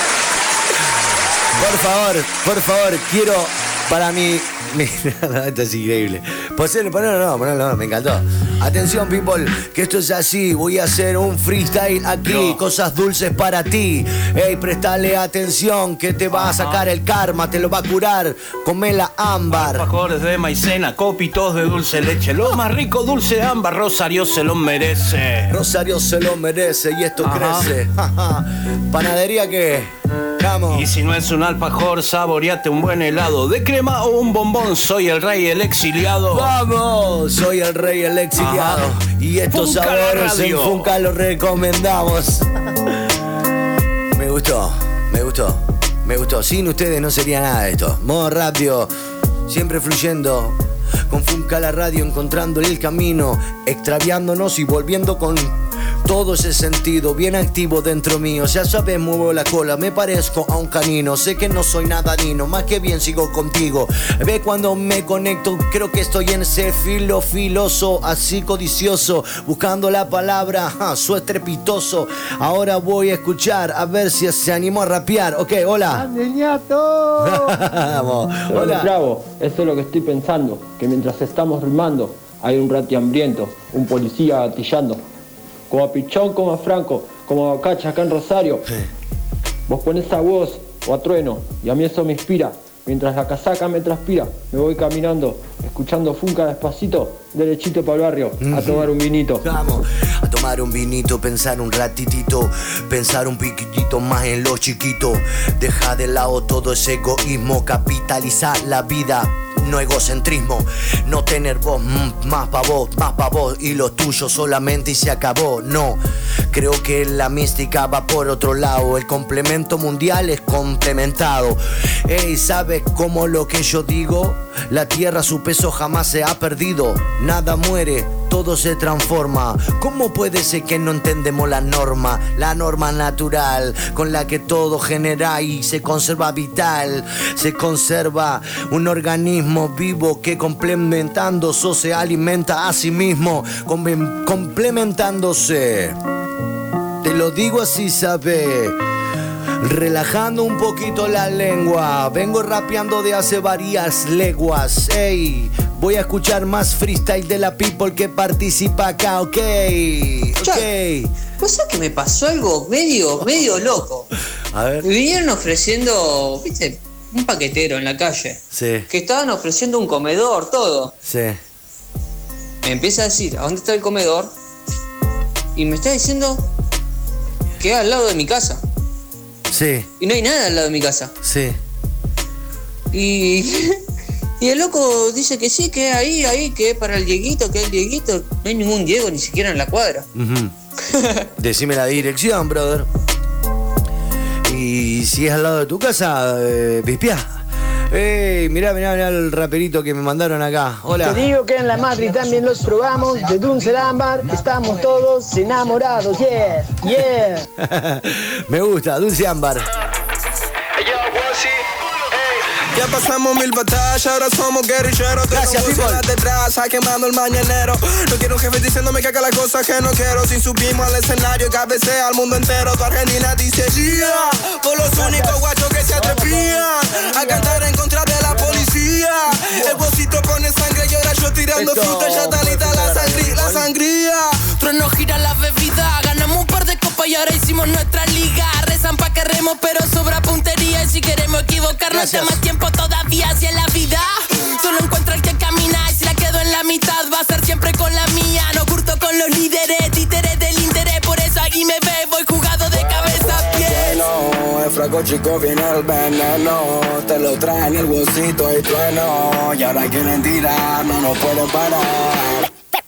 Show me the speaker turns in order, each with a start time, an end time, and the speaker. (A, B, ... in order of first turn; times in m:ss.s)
0:01.6-0:19.8 A
0:12.3-0:12.6 B
0:16.3-0:16.9 B
0:19.5-0:25.6 B
0:25.5-0:30.9 A
0:27.2-0:27.7 B
0:30.7-0:36.5 B
0:36.3-0:42.9 A
0:38.4-0:38.8 B
0:39.5-0:40.9 B
0:44.1-0:48.9 A
0:49.4-0:50.6 A
0:51.1-1:18.9 A
1:18.5-1:25.0 C
1:25.7-1:28.7 C
1:29.7-1:39.5 C
1:38.4-1:38.9 A
1:39.4-2:26.0 A
2:27.0-2:28.8 A
2:29.6-2:41.1 A
2:40.4-2:40.7 D
2:41.4-2:44.1 D
2:44.5-2:44.9 A
2:44.8-2:50.9 D
2:48.5-2:48.9 A
2:51.0-2:51.4 A
2:52.6-2:54.3 D
2:55.5-2:56.5 D
2:57.6-2:58.6 D
2:59.5-2:59.9 A
3:00.0-3:01.1 D
3:01.2-3:01.6 A
3:02.9-3:03.8 D
3:04.4-3:10.1 D
3:10.1-3:10.5 A
3:10.9-3:11.2 D
3:11.4-3:12.9 A
3:14.4-3:21.2 A
3:21.0-3:27.4 E
3:27.6-3:29.6 A
3:30.8-3:31.5 F
3:32.7-3:54.4 F
3:35.3-3:36.0 A
3:45.0-3:47.6 E
3:48.3-3:48.6 E
3:51.5-3:53.7 A
3:54.5-4:14.0 G
4:01.9-4:02.4 A
4:12.7-4:22.5 F